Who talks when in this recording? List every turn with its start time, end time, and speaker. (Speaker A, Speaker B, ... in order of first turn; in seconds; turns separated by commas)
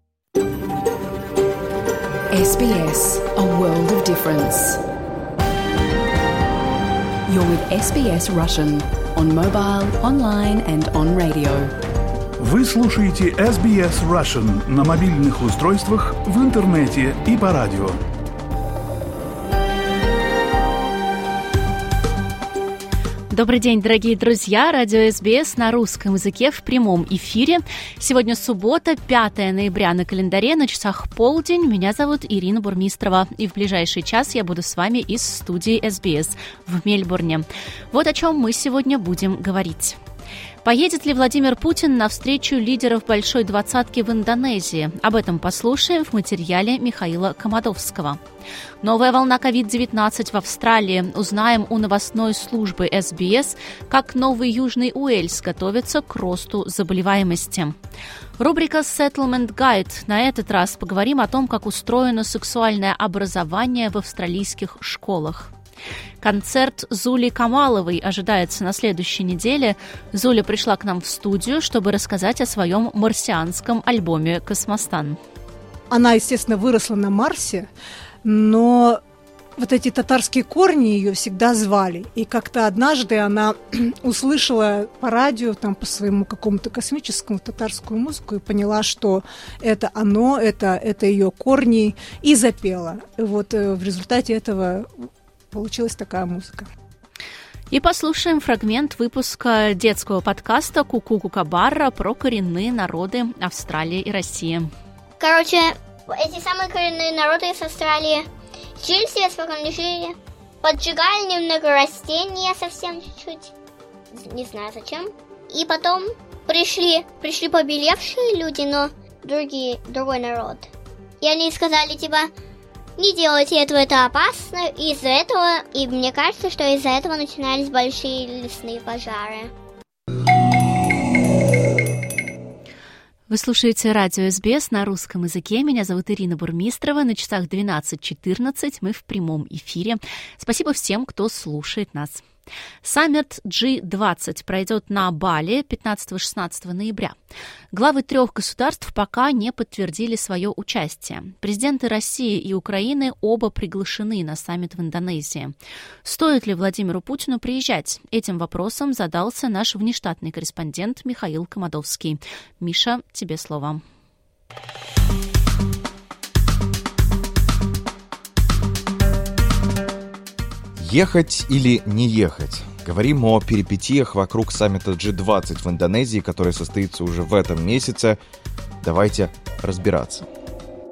Speaker A: 2.3-4.8, Speaker A: 7.2-11.7, Speaker B: 12.4-18.0, Speaker C: 23.3-40.0, Speaker C: 40.6-48.2, Speaker C: 48.8-57.7, Speaker C: 58.4-65.5, Speaker C: 66.2-75.2, Speaker D: 75.9-77.7, Speaker D: 78.2-79.0, Speaker D: 79.6-96.7, Speaker C: 97.7-104.7, Speaker E: 105.2-108.3, Speaker E: 108.8-113.5, Speaker E: 114.1-120.7, Speaker E: 121.2-122.3, Speaker E: 123.0-129.5, Speaker C: 133.3-142.2, Speaker C: 142.8-147.2, Speaker C: 147.7-163.8, Speaker F: 170.8-178.2, Speaker F: 178.8-180.2